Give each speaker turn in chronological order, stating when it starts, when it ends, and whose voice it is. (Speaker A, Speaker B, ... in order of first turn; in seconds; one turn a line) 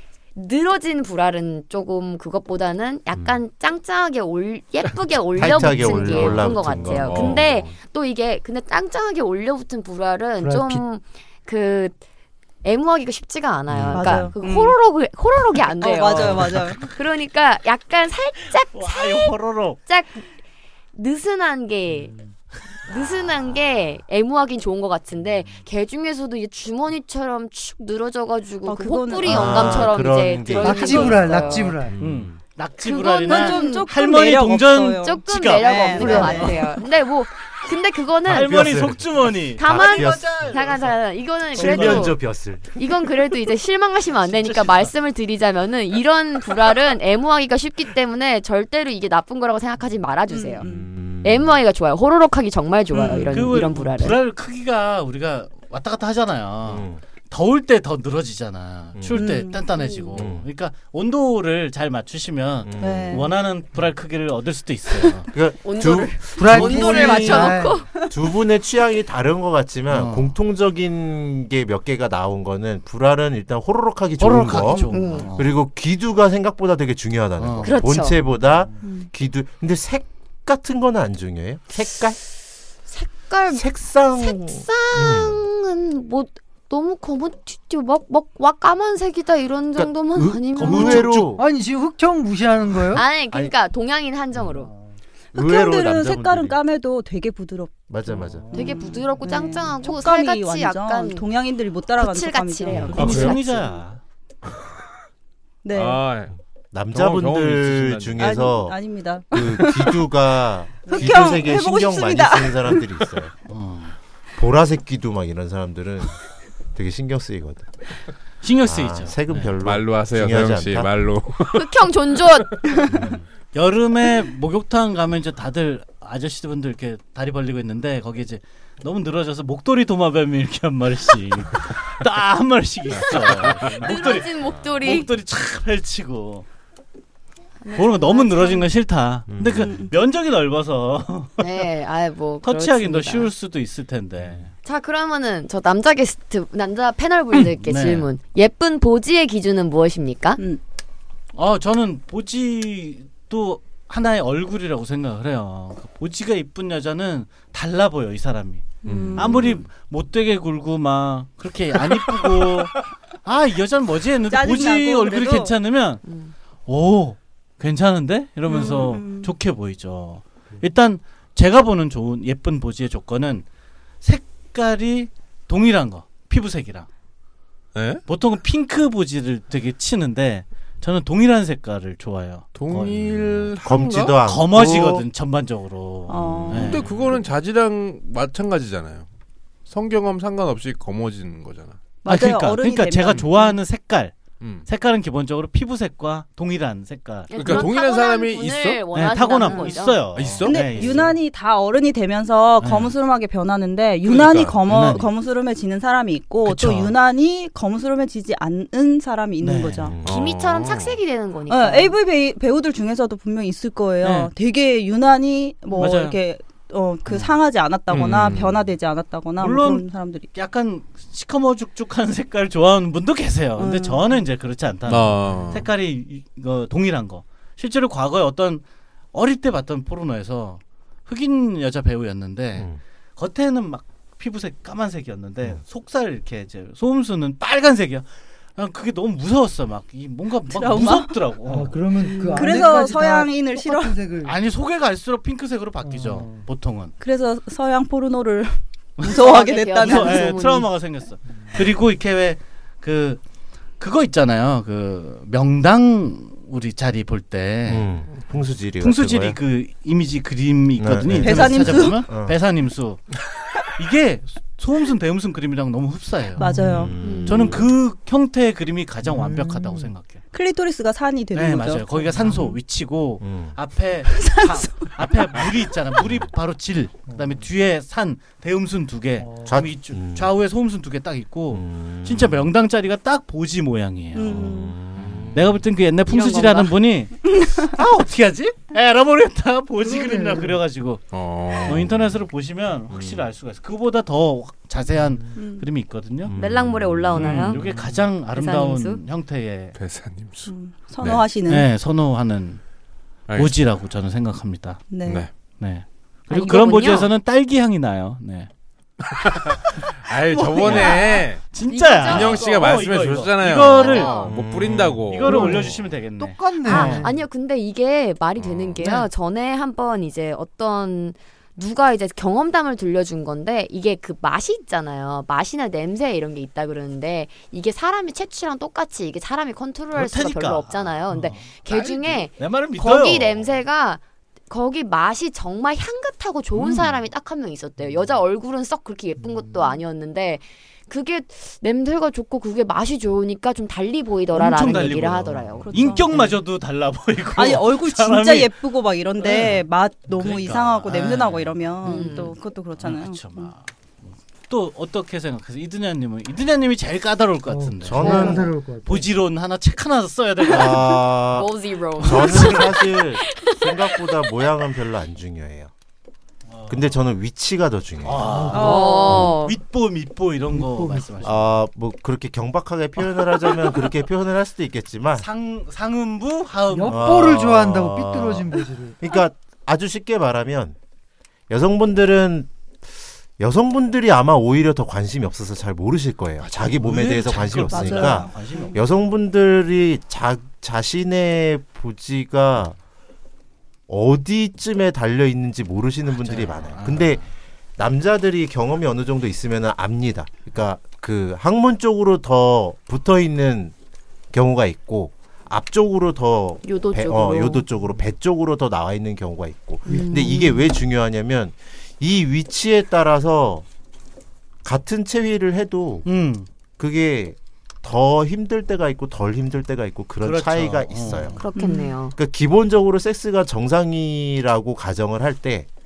Speaker A: 0.3-12.0
Speaker B: 5.3-7.4
Speaker C: 5.4-7.8
Speaker D: 10.4-10.8
Speaker A: 12.6-20.2
Speaker B: 13.7-14.3
Speaker E: 13.9-14.8
Speaker E: 15.7-16.8
Speaker F: 18.7-19.8
Speaker A: 20.9-22.1
Speaker A: 22.8-31.8
Speaker E: 28.6-29.8
Speaker B: 29.2-32.4
Speaker D: 30.5-31.9
Speaker F: 32.0-36.6
Speaker A: 32.8-33.9
Speaker E: 33.3-36.7
Speaker A: 35.0-38.7
Speaker B: 38.2-40.7
Speaker F: 38.3-40.7
Speaker A: 39.6-42.2
Speaker F: 41.5-42.0
Speaker B: 41.5-42.8
Speaker A: 42.7-50.6
Speaker F: 44.4-44.9
Speaker E: 50.3-50.9
Speaker B: 50.6-51.6
Speaker A: 51.2-54.2
Speaker E: 52.9-53.6
Speaker F: 53.1-65.3
Speaker B: 56.6-57.0
Speaker B: 58.9-59.3
Speaker E: 59.1-60.1
Speaker B: 60.1-60.4
Speaker B: 62.6-63.2
Speaker E: 62.8-63.3
Speaker B: 65.3-82.2
Speaker A: 65.6-67.9
Speaker D: 66.4-67.8
Speaker F: 69.9-70.3
Speaker F: 74.2-75.5
Speaker A: 74.9-75.3
Speaker F: 77.4-77.8
Speaker A: 77.6-78.2
Speaker A: 82.9-83.6
Speaker B: 83.5-85.4
Speaker A: 84.2-91.1
Speaker F: 90.5-91.3
Speaker B: 90.5-91.4
Speaker D: 91.4-93.0
Speaker A: 92.9-94.7
Speaker B: 95.3-96.6
Speaker E: 95.3-97.7
Speaker B: 97.9-98.5
Speaker E: 98.5-103.3
Speaker A: 98.5-101.2
Speaker A: 102.0-103.8
Speaker C: 102.7-103.4
Speaker F: 102.9-104.0
Speaker E: 105.6-106.1
Speaker C: 105.7-106.3
Speaker B: 106.7-108.8
Speaker C: 106.9-108.4
Speaker E: 108.2-110.1
Speaker B: 109.3-113.3
Speaker A: 110.8-111.1
Speaker E: 110.8-113.0
Speaker F: 113.5-114.0
Speaker B: 114.3-116.2
Speaker B: 116.7-117.7
Speaker F: 118.4-119.5
Speaker B: 118.7-120.9
Speaker C: 119.6-121.9
Speaker A: 121.5-122.5
Speaker B: 122.9-123.2
Speaker F: 123.5-136.4
Speaker C: 133.1-133.9
Speaker A: 133.6-135.1
Speaker A: 137.6-138.7
Speaker F: 137.7-141.6
Speaker B: 139.3-139.7
Speaker E: 139.6-139.9
Speaker A: 141.4-143.3
Speaker F: 142.4-144.5
Speaker A: 144.6-150.4
Speaker F: 147.6-148.1
Speaker F: 151.3-166.0
Speaker E: 158.8-159.6
Speaker C: 158.8-159.4
Speaker E: 164.3-165.5
Speaker A: 166.1-166.3
Speaker F: 166.7-173.4
Speaker E: 168.4-169.3
Speaker F: 174.0-176.9
Speaker C: 177.7-178.0
Speaker F: 178.1-183.5
Speaker C: 182.5-184.2
Speaker B: 183.6-185.1
Speaker F: 184.2-186.9
Speaker E: 186.1-186.9
Speaker C: 186.2-189.1
Speaker C: 189.7-191.9
Speaker E: 192.0-193.6
Speaker F: 192.0-197.6
Speaker C: 194.4-194.7
Speaker A: 197.3-200.0
Speaker C: 197.3-198.8
Speaker F: 198.9-201.2
Speaker E: 199.4-209.9
Speaker C: 200.1-201.0
Speaker F: 202.6-202.9
Speaker C: 204.0-204.6
Speaker F: 204.6-205.1
Speaker F: 206.4-206.9
Speaker F: 209.4-209.9
Speaker B: 209.9-210.1
Speaker C: 210.0-211.0
Speaker A: 210.0-212.0
Speaker E: 211.5-220.3
Speaker F: 214.0-214.3
Speaker F: 215.7-216.2
Speaker F: 217.1-217.3
Speaker C: 217.9-218.7
Speaker F: 219.4-228.6
Speaker E: 223.6-224.2
Speaker C: 224.9-225.7
Speaker F: 229.1-241.8
Speaker E: 240.4-241.1
Speaker D: 241.5-244.3
Speaker E: 242.0-243.9
Speaker F: 244.2-246.9
Speaker D: 245.8-246.5
Speaker E: 247.0-250.4
Speaker F: 249.0-253.2
Speaker A: 249.0-250.7
Speaker F: 253.8-257.9
Speaker B: 257.7-259.4
Speaker F: 258.8-263.1
Speaker B: 260.7-262.4
Speaker E: 261.1-262.1
Speaker F: 263.8-266.4
Speaker D: 266.4-266.9
Speaker E: 266.4-267.0
Speaker B: 266.7-267.6
Speaker A: 267.0-267.6
Speaker F: 267.1-270.2
Speaker D: 269.1-269.9
Speaker E: 270.3-272.6
Speaker F: 271.3-284.4
Speaker B: 273.2-273.6
Speaker E: 274.1-275.5
Speaker D: 279.2-279.6
Speaker B: 279.4-280.3
Speaker B: 281.5-282.5
Speaker E: 284.1-284.8
Speaker B: 284.3-285.5
Speaker F: 285.3-291.0
Speaker A: 286.1-286.7
Speaker E: 287.3-287.7
Speaker D: 289.8-290.6
Speaker C: 291.1-291.9
Speaker F: 291.6-296.3
Speaker C: 292.9-293.2
Speaker D: 295.0-295.3
Speaker E: 295.4-295.6
Speaker B: 296.2-297.1
Speaker A: 296.4-297.6
Speaker E: 297.2-297.6
Speaker F: 297.2-299.7
Speaker A: 298.3-299.0
Speaker C: 299.7-301.3
Speaker E: 300.4-301.7
Speaker F: 301.5-302.6
Speaker C: 303.3-303.5
Speaker F: 303.3-304.9
Speaker E: 304.9-305.3
Speaker C: 305.0-305.3
Speaker F: 305.6-308.5
Speaker A: 306.3-307.1
Speaker C: 309.1-309.4
Speaker C: 310.0-315.6
Speaker F: 310.3-317.0
Speaker E: 310.5-311.2
Speaker A: 310.6-311.0
Speaker A: 311.6-312.5
Speaker A: 313.8-314.3
Speaker B: 314.2-315.9
Speaker D: 315.2-317.2
Speaker A: 316.7-345.7
Speaker C: 318.4-318.8
Speaker D: 318.8-319.1
Speaker F: 329.9-333.5
Speaker F: 344.3-348.5
Speaker B: 344.8-345.7
Speaker E: 345.6-346.4
Speaker E: 347.4-353.5
Speaker F: 349.2-353.7
Speaker A: 351.9-352.3
Speaker F: 354.5-361.1
Speaker D: 357.5-359.1
Speaker B: 357.8-358.5
Speaker A: 358.0-358.4
Speaker B: 360.5-365.7
Speaker A: 361.3-363.7
Speaker F: 362.1-362.5
Speaker F: 366.5-366.9
Speaker B: 366.7-368.5
Speaker F: 368.0-371.4
Speaker D: 368.2-369.3
Speaker A: 368.5-369.6
Speaker E: 368.6-369.2
Speaker D: 370.5-371.4
Speaker B: 371.2-375.3
Speaker F: 375.1-377.3
Speaker D: 376.7-379.0
Speaker B: 376.8-380.8
Speaker B: 381.5-382.5
Speaker B: 383.4-392.8
Speaker F: 386.4-388.9
Speaker E: 387.6-388.7
Speaker B: 393.9-397.2
Speaker F: 396.2-397.3
Speaker B: 397.8-403.7
Speaker B: 404.3-413.6
Speaker A: 406.6-407.6
Speaker A: 409.9-410.7
Speaker D: 409.9-410.5
Speaker B: 414.6-416.1
Speaker F: 416.0-416.5
Speaker B: 416.8-421.4
Speaker F: 420.2-421.4
Speaker A: 421.4-422.1
Speaker E: 421.5-421.9
Speaker B: 422.1-425.7